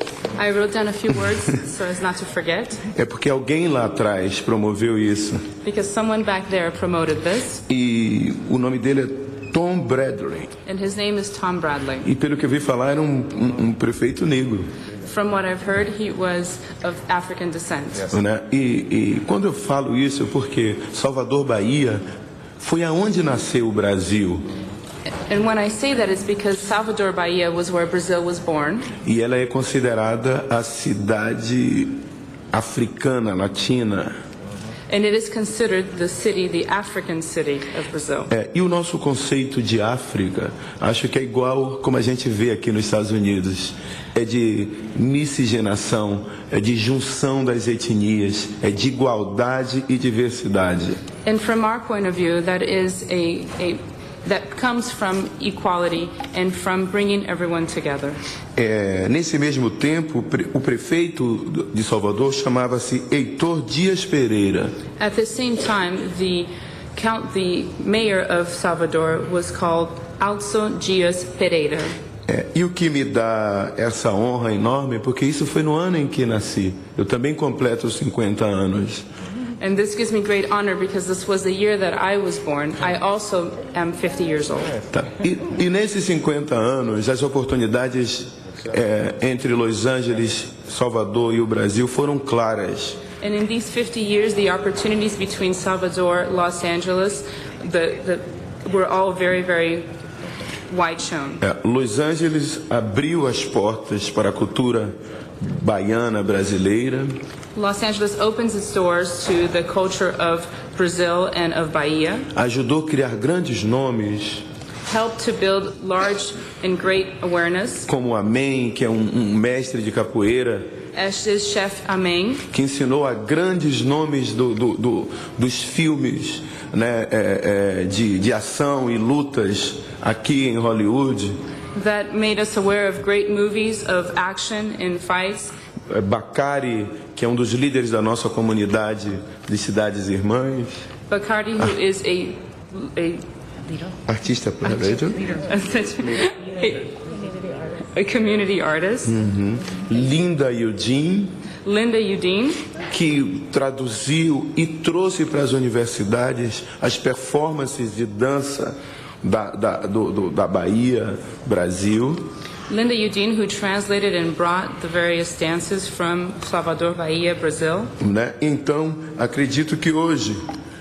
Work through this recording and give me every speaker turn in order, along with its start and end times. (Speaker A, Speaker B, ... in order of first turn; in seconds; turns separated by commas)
Speaker A: 0.3-2.8, Speaker B: 2.9-5.5, Speaker A: 5.6-7.6, Speaker B: 7.7-10.5, Speaker A: 10.7-12.1, Speaker B: 12.0-14.7, Speaker A: 15.0-18.1, Speaker B: 18.1-22.1, Speaker B: 22.6-24.5, Speaker A: 25.3-28.9, Speaker B: 29.0-34.2, Speaker A: 34.9-38.3, Speaker B: 38.3-51.0, Speaker A: 51.2-58.2, Speaker B: 58.6-64.8, Speaker A: 65.0-71.9, Speaker B: 72.3-79.0, Speaker A: 79.6-84.8, Speaker B: 84.9-93.0, Speaker A: 93.2-99.9, Speaker A: 100.7-101.4, Speaker B: 101.4-107.2, Speaker A: 107.5-112.3, Speaker B: 112.3-114.5, Speaker A: 114.8-117.9, Speaker B: 117.9-120.7, Speaker A: 120.9-122.4, Speaker B: 122.5-131.3, Speaker A: 131.7-135.5, Speaker B: 135.9-140.8, Speaker A: 141.1-143.2, Speaker B: 144.1-145.3, Speaker A: 145.4-147.0, Speaker A: 147.9-149.1, Speaker B: 149.1-151.4, Speaker A: 151.6-152.6, Speaker B: 152.9-162.3, Speaker A: 162.7-167.9, Speaker B: 168.0-170.4